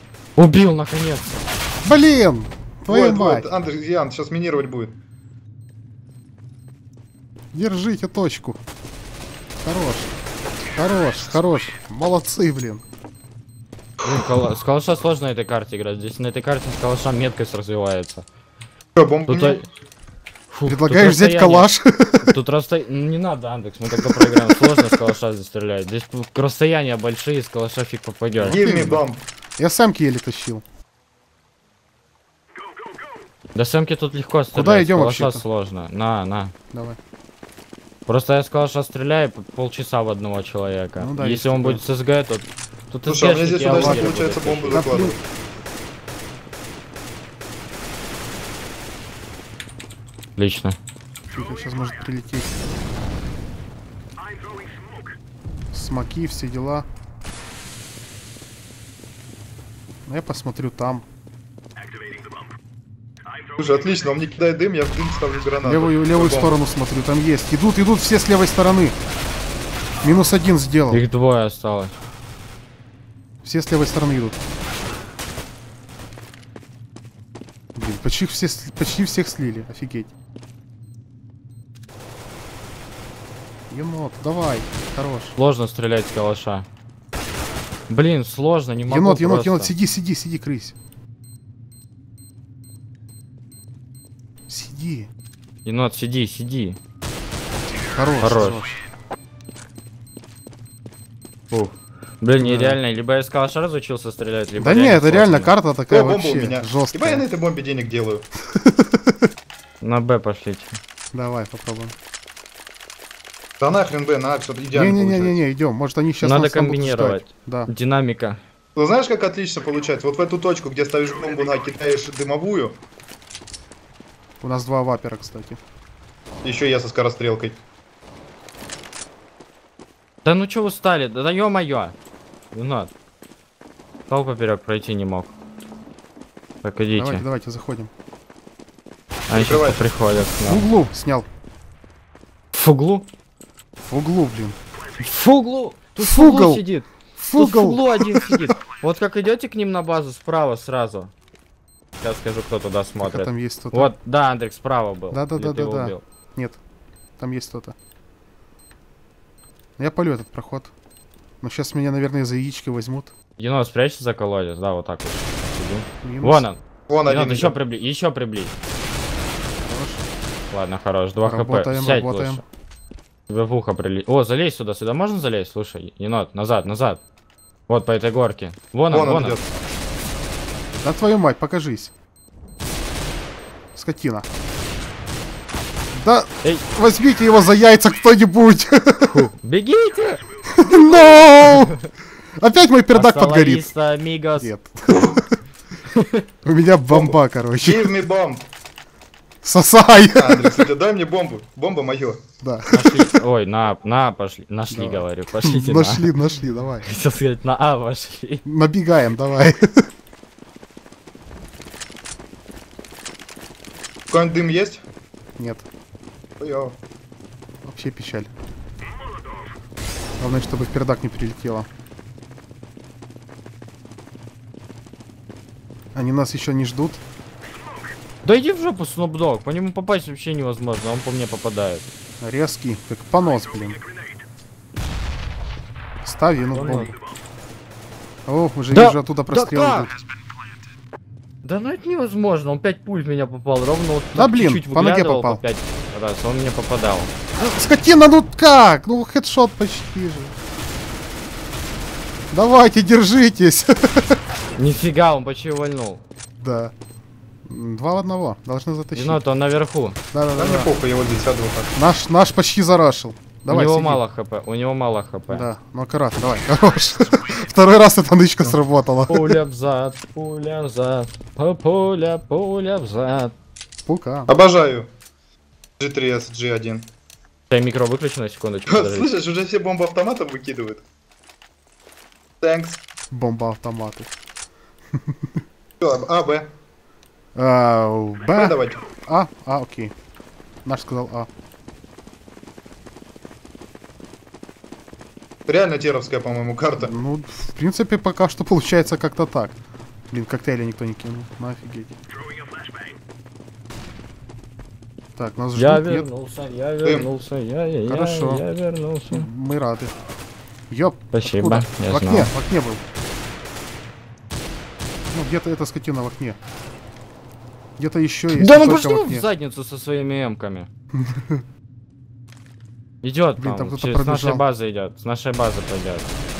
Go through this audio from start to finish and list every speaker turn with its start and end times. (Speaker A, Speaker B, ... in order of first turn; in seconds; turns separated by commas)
Speaker A: 0.4-1.4, Speaker B: 1.8-3.5, Speaker C: 2.9-4.9, Speaker B: 7.5-8.6, Speaker B: 9.6-10.1, Speaker B: 10.8-12.8, Speaker A: 14.0-18.2, Speaker C: 18.9-19.6, Speaker A: 19.3-19.6, Speaker A: 20.5-21.7, Speaker B: 20.7-22.3, Speaker A: 22.2-29.0, Speaker B: 24.0-25.0, Speaker B: 28.4-29.0, Speaker C: 28.4-29.2, Speaker B: 29.6-30.6, Speaker A: 33.5-36.5, Speaker B: 34.5-35.4, Speaker B: 36.7-37.0, Speaker A: 38.1-44.9, Speaker B: 41.0-41.8, Speaker C: 43.1-45.2, Speaker B: 43.6-45.1, Speaker A: 50.4-50.8, Speaker B: 51.3-52.5, Speaker B: 55.7-56.9, Speaker B: 60.1-61.1, Speaker C: 63.6-66.6, Speaker B: 65.6-69.0, Speaker B: 70.0-71.0, Speaker A: 70.9-72.0, Speaker B: 73.4-74.4, Speaker B: 77.8-80.1, Speaker B: 83.7-85.4, Speaker A: 85.4-86.7, Speaker A: 87.9-89.7, Speaker B: 88.9-90.8, Speaker B: 94.5-95.1, Speaker A: 95.7-96.8, Speaker B: 97.9-98.8, Speaker A: 98.2-98.7, Speaker A: 101.5-105.5, Speaker B: 102.4-102.8, Speaker B: 104.6-107.2, Speaker C: 105.9-108.2, Speaker B: 108.5-109.3, Speaker A: 109.8-110.8, Speaker B: 111.1-112.0, Speaker C: 113.6-115.3, Speaker B: 114.7-117.7, Speaker A: 116.2-118.4, Speaker C: 118.8-122.8, Speaker B: 124.4-125.6, Speaker C: 126.4-127.6, Speaker A: 130.2-131.9, Speaker A: 132.5-132.9, Speaker A: 134.1-135.3, Speaker A: 136.6-137.2, Speaker B: 136.9-137.9, Speaker A: 139.3-140.7, Speaker C: 139.3-139.9, Speaker B: 140.4-141.3, Speaker A: 142.5-143.1, Speaker B: 143.8-144.6, Speaker A: 145.0-151.1, Speaker B: 146.0-146.6, Speaker B: 147.2-148.5, Speaker A: 152.0-156.0, Speaker B: 153.0-153.9, Speaker B: 155.1-156.6, Speaker B: 157.2-157.8, Speaker B: 159.8-160.7, Speaker B: 161.4-163.1, Speaker A: 163.4-168.6, Speaker B: 166.0-166.4, Speaker C: 166.9-167.6, Speaker B: 169.6-170.0, Speaker A: 170.5-172.4, Speaker B: 171.2-172.4, Speaker A: 173.3-177.0, Speaker A: 177.7-179.4, Speaker C: 178.9-179.5, Speaker B: 180.8-181.9, Speaker B: 183.8-184.3, Speaker B: 185.9-189.3, Speaker A: 186.4-186.7, Speaker A: 189.1-190.2, Speaker B: 190.5-191.7, Speaker A: 191.2-191.9, Speaker B: 192.4-193.7, Speaker A: 192.9-194.5, Speaker B: 194.4-195.2, Speaker C: 194.9-195.2, Speaker A: 195.9-196.2, Speaker B: 196.4-197.9, Speaker C: 196.9-198.4, Speaker B: 199.4-200.6, Speaker C: 200.1-202.2, Speaker B: 202.4-203.1, Speaker A: 202.7-206.2, Speaker B: 204.7-206.8, Speaker A: 206.8-208.4, Speaker B: 208.4-209.9, Speaker C: 214.1-214.8, Speaker B: 215.4-215.7, Speaker C: 216.4-216.8, Speaker B: 217.6-218.3, Speaker B: 220.2-221.7, Speaker B: 225.9-227.0, Speaker A: 228.2-231.8, Speaker B: 232.2-233.8, Speaker B: 236.0-236.9, Speaker A: 236.6-236.9, Speaker B: 238.3-239.9, Speaker A: 238.7-239.9, Speaker A: 241.4-247.1, Speaker B: 244.2-245.4, Speaker B: 247.4-250.3, Speaker B: 252.3-254.2, Speaker A: 254.6-256.0, Speaker B: 256.4-256.7, Speaker B: 257.5-259.2, Speaker A: 258.9-260.0, Speaker B: 260.1-260.7, Speaker C: 260.4-261.7, Speaker B: 261.8-264.0, Speaker A: 263.5-265.5, Speaker B: 265.3-269.4, Speaker A: 269.1-273.3, Speaker B: 273.9-274.3, Speaker C: 274.3-274.9, Speaker C: 275.8-276.9, Speaker A: 277.5-279.1, Speaker C: 278.7-280.8, Speaker C: 282.4-282.8, Speaker B: 283.1-284.1, Speaker B: 284.9-285.4, Speaker C: 285.8-286.5, Speaker B: 287.4-289.9, Speaker C: 288.3-288.8, Speaker B: 290.6-291.3, Speaker C: 295.5-296.9, Speaker B: 296.8-299.6, Speaker B: 300.1-301.9, Speaker B: 305.2-306.1, Speaker A: 305.6-309.3, Speaker B: 307.9-308.4, Speaker B: 309.1-309.9, Speaker B: 310.7-312.8, Speaker A: 311.1-312.3, Speaker B: 315.1-316.4, Speaker B: 317.8-319.3, Speaker A: 318.3-320.7, Speaker B: 320.9-321.4, Speaker A: 323.0-326.1, Speaker B: 323.4-324.4